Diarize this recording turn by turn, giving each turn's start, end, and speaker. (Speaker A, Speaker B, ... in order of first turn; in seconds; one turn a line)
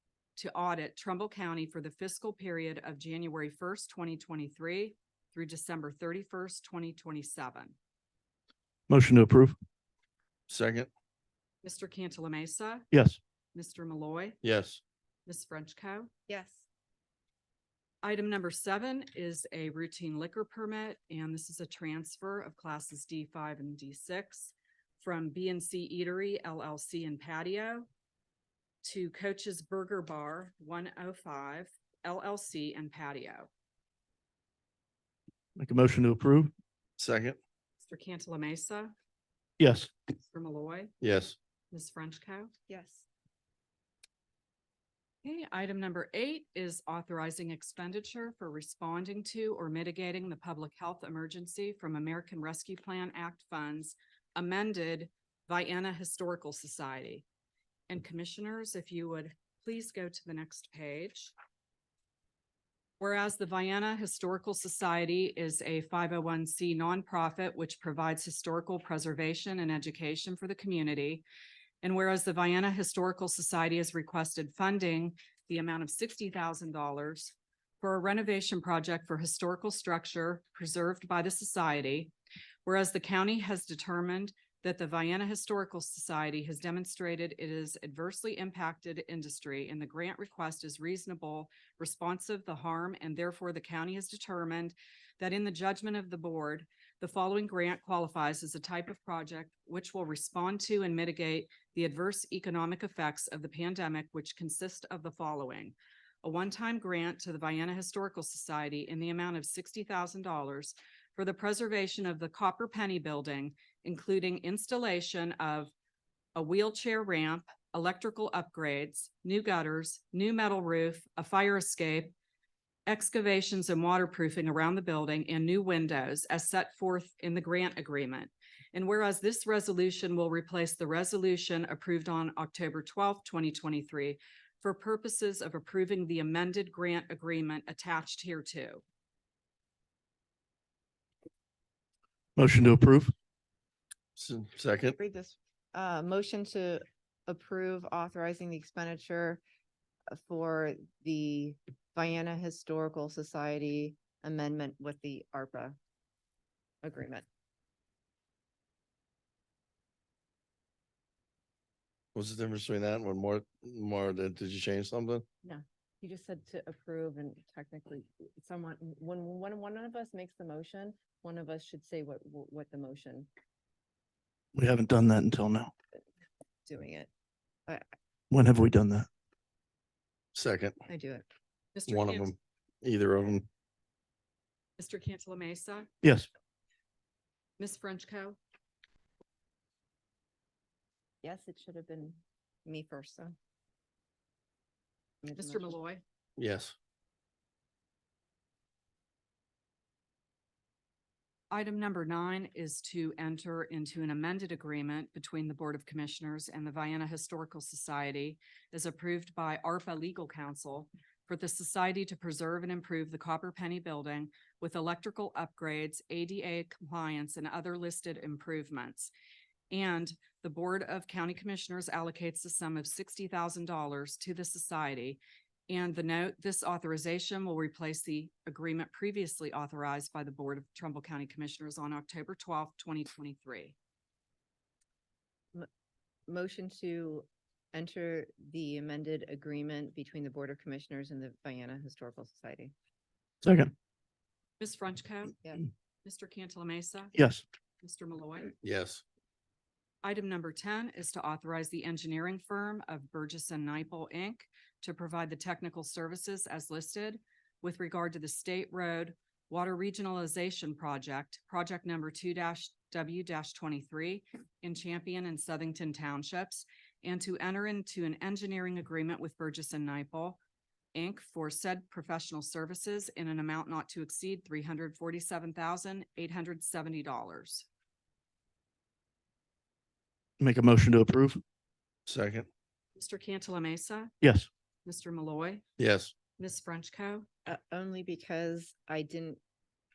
Speaker A: 0.3-7.8
Speaker B: 8.9-9.6
Speaker C: 10.5-10.9
Speaker A: 11.6-12.9
Speaker B: 12.9-13.2
Speaker A: 13.5-14.4
Speaker C: 14.4-14.8
Speaker A: 15.2-16.1
Speaker D: 16.3-16.7
Speaker A: 18.0-27.9
Speaker A: 28.8-33.5
Speaker B: 35.6-36.5
Speaker C: 37.0-37.4
Speaker A: 37.8-38.9
Speaker B: 39.6-39.9
Speaker A: 40.2-40.9
Speaker C: 41.0-41.4
Speaker A: 41.7-42.5
Speaker D: 42.7-43.0
Speaker A: 45.2-57.2
Speaker A: 57.9-61.3
Speaker A: 63.0-71.2
Speaker A: 71.8-82.1
Speaker A: 82.7-115.7
Speaker A: 116.3-122.2
Speaker A: 122.9-138.8
Speaker B: 142.4-143.1
Speaker C: 144.2-145.0
Speaker D: 145.0-149.4
Speaker D: 150.1-155.8
Speaker D: 156.8-157.2
Speaker C: 162.2-165.2
Speaker D: 165.4-173.3
Speaker B: 174.6-175.7
Speaker D: 176.7-177.1
Speaker B: 178.3-179.1
Speaker C: 180.3-180.8
Speaker D: 180.9-181.2
Speaker A: 181.8-182.3
Speaker C: 181.9-183.5
Speaker A: 184.8-185.9
Speaker B: 186.0-186.3
Speaker A: 187.6-188.4
Speaker D: 191.2-193.4
Speaker D: 195.2-195.8
Speaker A: 195.3-196.0
Speaker C: 196.4-196.7
Speaker A: 201.5-219.1
Speaker A: 219.7-233.8
Speaker D: 236.3-242.7
Speaker B: 243.4-243.7
Speaker A: 244.6-245.4
Speaker A: 246.1-247.1
Speaker B: 247.2-247.4
Speaker A: 247.8-248.5
Speaker C: 248.6-249.0
Speaker A: 250.0-270.4
Speaker A: 270.9-277.7
Speaker B: 280.4-281.4
Speaker C: 282.1-282.5
Speaker A: 282.9-284.1
Speaker B: 284.2-284.5
Speaker A: 284.9-285.6
Speaker C: 285.8-286.1
Speaker A: 286.4-287.3
Speaker D: 287.4-289.4